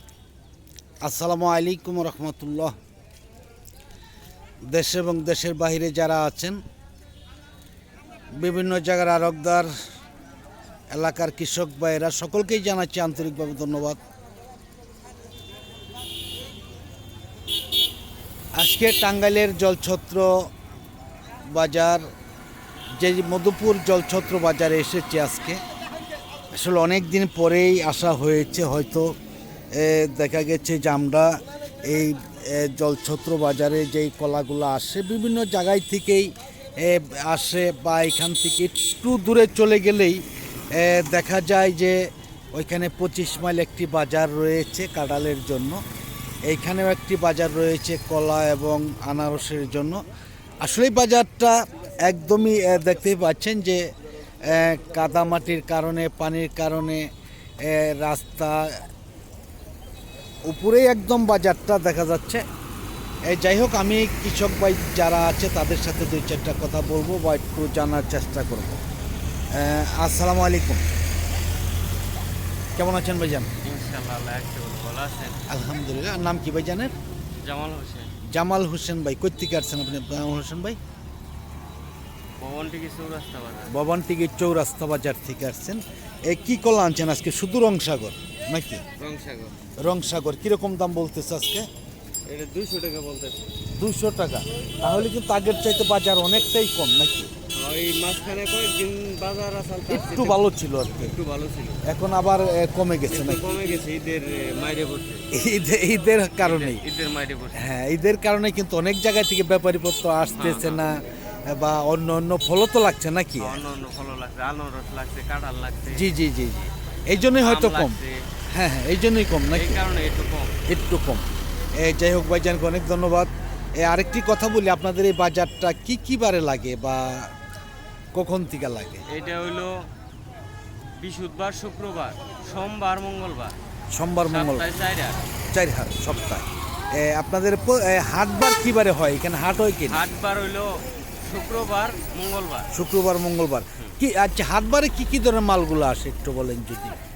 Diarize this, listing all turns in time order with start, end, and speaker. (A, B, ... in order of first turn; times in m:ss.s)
0:01.0-0:02.8 A
0:04.7-0:06.6 A
0:08.3-0:09.7 A
0:10.9-0:14.0 A
0:18.5-0:20.5 A
0:21.4-0:22.1 A
0:23.0-0:25.6 A
0:26.5-0:29.1 A
0:29.7-0:45.8 A
0:46.5-0:50.0 A
0:50.6-0:53.8 A
0:54.4-0:57.1 A
0:57.6-0:58.9 A
1:00.4-1:02.4 A
1:03.2-1:08.8 A
1:09.5-1:10.8 A
1:12.8-1:13.5 A
1:13.6-1:15.4 B
1:15.5-1:16.9 A
1:17.4-1:18.1 B
1:18.3-1:20.8 A
1:22.4-1:23.7 B
1:23.7-1:28.8 A
1:29.0-1:29.6 B
1:29.8-1:31.7 A
1:32.3-1:33.5 B
1:33.8-1:37.3 A
1:37.5-1:41.8 B
1:39.9-1:41.2 A
1:41.8-1:43.8 A
1:43.1-1:45.2 B
1:45.3-1:46.8 A
1:46.4-1:47.6 B
1:47.6-1:53.6 A
1:50.4-1:50.8 B
1:53.4-1:56.1 B
1:55.9-1:58.0 A
1:57.4-1:58.2 B
1:58.5-1:59.8 A
1:59.5-2:00.6 B
2:00.7-2:01.2 A
2:01.8-2:07.3 A
2:08.1-2:09.0 A
2:09.1-2:09.9 B
2:11.0-2:13.6 B
2:13.9-2:14.7 A
2:14.3-2:15.2 B
2:15.5-2:20.0 A
2:19.9-2:22.7 B
2:22.7-2:27.0 A